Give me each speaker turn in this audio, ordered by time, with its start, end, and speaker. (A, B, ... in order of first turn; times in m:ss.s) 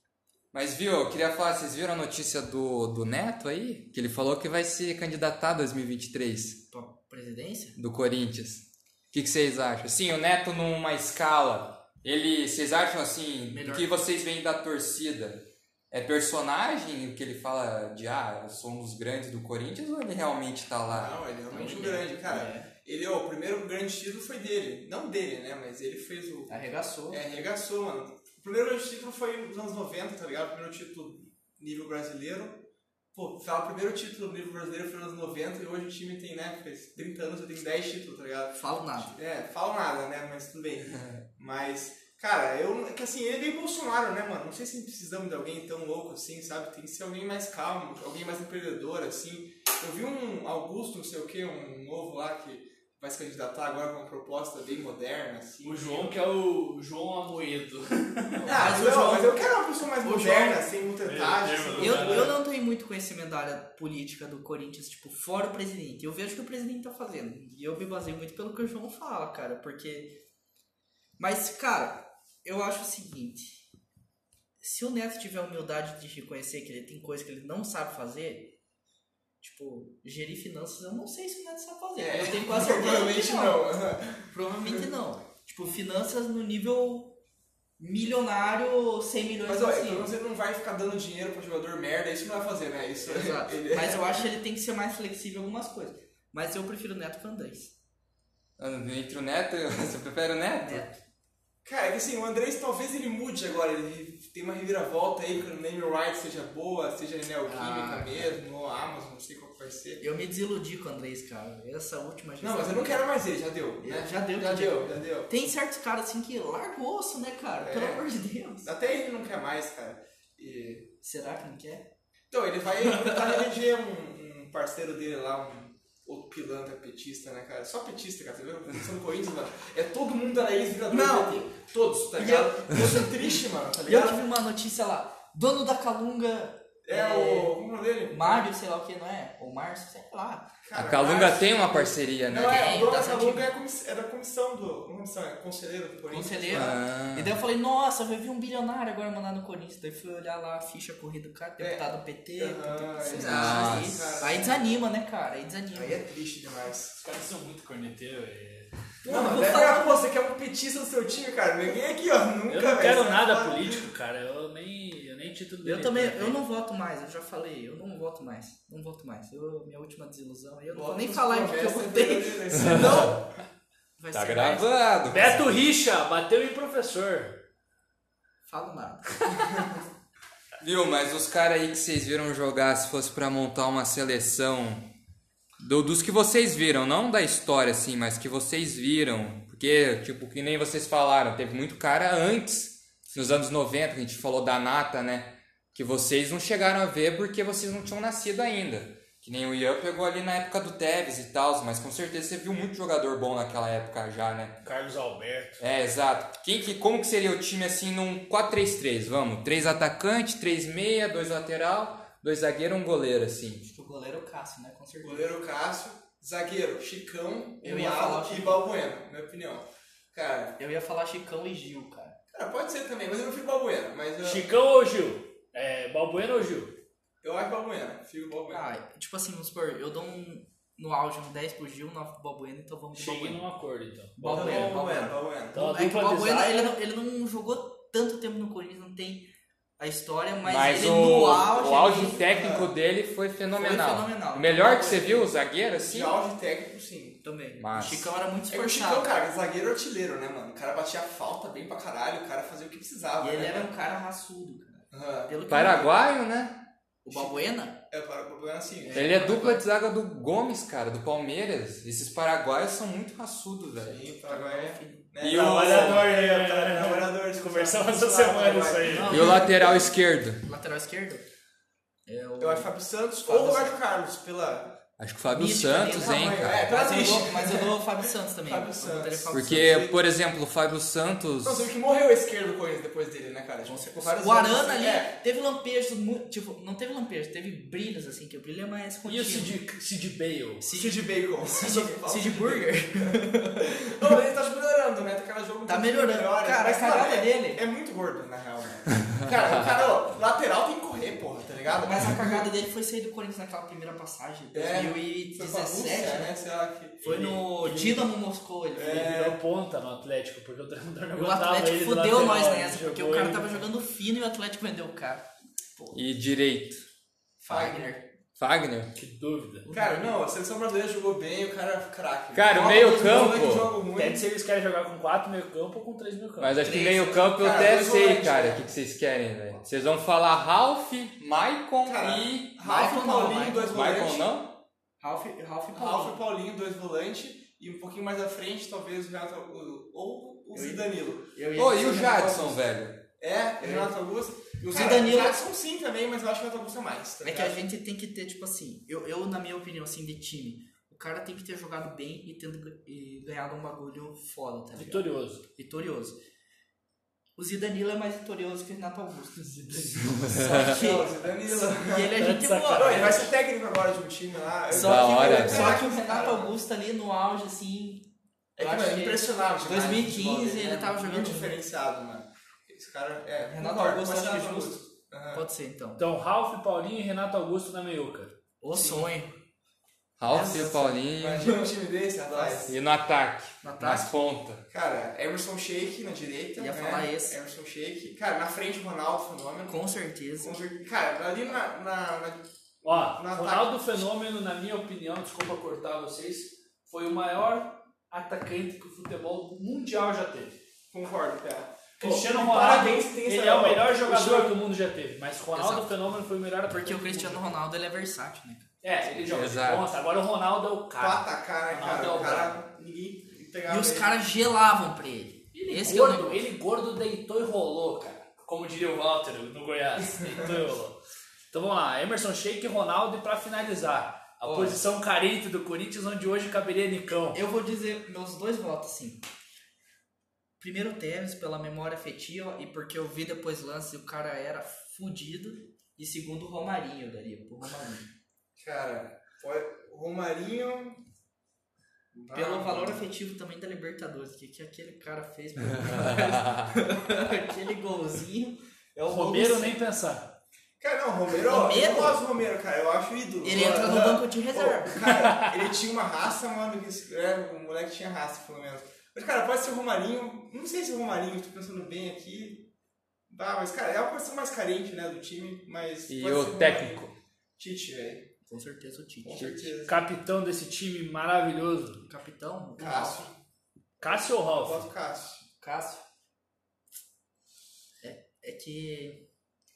0:00.5-0:06.6 A
0:06.7-0:07.8 B
0:07.8-0:21.2 A
0:13.5-0:14.0 B
0:20.9-0:26.5 C
0:21.5-0:22.7 B
0:26.5-0:27.2 B
0:27.1-0:56.1 C
0:38.6-0:39.2 B
0:55.6-0:58.8 D
0:58.4-1:02.3 C
0:58.5-1:00.6 B
1:01.0-1:02.3 D
1:01.8-1:10.2 B
1:11.2-1:13.7 B
1:14.6-1:18.6 B
1:19.4-1:23.6 B
1:22.0-1:24.8 C
1:24.3-1:27.2 B
1:27.8-1:30.1 B
1:29.5-1:34.3 C
1:33.0-1:37.8 B
1:38.6-1:40.9 A
1:40.6-1:41.0 B
1:41.6-1:50.0 C
1:47.5-1:48.4 B
1:50.0-1:53.1 B
1:52.4-1:55.3 C
1:53.8-1:58.7 B
1:57.6-1:58.0 C
1:58.6-2:00.9 C
2:01.0-2:01.9 B
2:02.3-2:14.2 C
2:10.9-2:11.5 B
2:12.2-2:20.5 B
2:16.8-2:18.5 C
2:20.6-2:26.8 C
2:20.8-2:22.8 A
2:22.3-2:23.5 B
2:26.1-2:36.0 B
2:26.5-2:27.3 A
2:31.6-2:34.8 C
2:33.1-2:34.2 A
2:35.7-2:37.0 C
2:37.0-2:38.7 D
2:39.0-2:40.1 B
2:39.1-2:43.9 C
2:42.5-2:46.4 D
2:45.6-2:53.2 B
2:50.7-2:53.2 C
2:52.6-2:53.1 A
2:54.0-2:55.3 B
2:54.1-2:55.6 A
2:55.1-2:57.4 D
2:58.5-2:59.7 B
3:00.6-3:04.9 A
3:05.6-3:24.6 A
3:24.6-3:25.6 D
3:25.6-3:33.7 A
3:33.6-3:35.3 B
3:35.0-3:40.6 C
3:37.6-3:38.6 B
3:40.6-3:42.2 B
3:42.3-3:44.4 C
3:44.2-3:46.7 D
3:47.2-3:48.6 C
3:48.5-3:53.4 B
3:52.9-3:54.8 D
3:54.2-4:02.2 B
3:54.3-3:55.6 C
3:55.5-3:56.8 D
4:00.4-4:06.2 A
4:02.3-4:02.7 C
4:03.6-4:05.3 B
4:05.8-4:07.2 C
4:07.2-4:09.1 B
4:07.6-4:08.1 A
4:08.5-4:13.7 C
4:13.2-4:16.0 B
4:14.9-4:15.3 C
4:15.5-4:16.6 A
4:17.0-4:17.8 B
4:17.1-4:19.1 C
4:18.8-4:19.6 B
4:18.9-4:24.0 A
4:23.8-4:29.8 C
4:24.2-4:25.1 B
4:25.2-4:26.1 A
4:25.3-4:29.3 D
4:28.8-4:29.8 B
4:29.1-4:30.4 A
4:30.4-4:31.2 B
4:32.1-4:32.7 B
4:32.4-4:34.8 C
4:33.2-4:33.8 B
4:35.0-4:36.7 A
4:35.3-4:39.9 B
4:35.7-4:37.8 C
4:38.4-4:40.0 C
4:39.3-4:41.7 A
4:41.4-4:45.1 C
4:43.7-4:49.6 B
4:49.1-4:50.6 D
4:50.6-4:54.2 B
4:50.7-5:02.5 C
4:55.7-4:57.6 B
5:01.8-5:06.3 B
5:04.5-5:07.4 C
5:07.0-5:09.3 B
5:07.1-5:08.1 D
5:08.8-5:09.4 C
5:09.0-5:13.7 D
5:11.2-5:15.2 B
5:15.8-5:16.0 B
5:15.9-5:16.8 A
5:17.4-5:17.9 C
5:17.4-5:18.1 B
5:18.4-5:18.9 A
5:19.0-5:19.7 D
5:19.6-5:20.2 B
5:19.7-5:24.2 C
5:22.3-5:23.7 A
5:23.9-5:26.6 D
5:26.4-5:32.6 A
5:26.6-5:27.8 B
5:27.4-5:28.7 C
5:31.8-5:34.3 C
5:32.6-5:34.0 B
5:33.7-5:34.5 A
5:35.0-5:36.2 B
5:35.7-5:41.3 C
5:40.5-5:42.6 B
5:41.6-5:43.0 A
5:43.2-5:47.6 C
5:43.6-5:43.9 B
5:44.7-5:45.4 B
5:47.2-5:56.2 B
5:54.8-5:55.4 D
5:57.4-6:03.3 B
6:00.2-6:00.8 A
6:00.5-6:02.2 C
6:02.2-6:03.3 D
6:02.7-6:06.5 C
6:04.7-6:11.6 B
6:04.7-6:05.8 A
6:08.6-6:15.4 C
6:13.4-6:14.8 B
6:15.3-6:16.0 B
6:16.0-6:18.4 D
6:18.6-6:19.3 B
6:18.7-6:19.1 C
6:20.2-6:21.7 A
6:20.3-6:21.0 B
6:20.6-6:22.8 C
6:22.3-6:22.7 B
6:22.7-6:24.6 A
6:23.6-6:24.1 B
6:24.7-6:34.0 C
6:26.6-6:27.4 B
6:29.7-6:30.7 B
6:32.8-6:40.6 D
6:40.9-6:44.5 C
6:42.0-6:47.5 D
6:45.5-6:45.9 B
6:46.7-6:48.7 B
6:48.8-6:52.6 D
6:49.2-6:49.9 A
6:51.0-6:54.2 C
6:53.7-6:56.4 B
6:55.5-7:01.0 D
7:01.5-7:07.4 D
7:04.4-7:04.8 B
7:07.3-7:09.2 B
7:10.6-7:18.1 B
7:18.6-7:21.0 C
7:22.1-7:23.0 C
7:22.3-7:29.7 B
7:26.1-7:26.7 A
7:29.0-7:30.3 D
7:30.8-7:42.7 C
7:31.4-7:32.2 B
7:33.4-7:35.1 B
7:35.2-7:35.5 D
7:43.3-7:48.3 C
7:46.1-7:47.1 A
7:48.5-7:49.8 B
7:49.2-7:50.0 C
7:49.8-7:52.0 D
7:52.1-7:53.3 B
7:52.8-7:53.3 C
7:54.0-7:54.9 D
7:54.5-7:55.4 C
7:55.6-7:56.0 B
7:58.0-7:59.3 B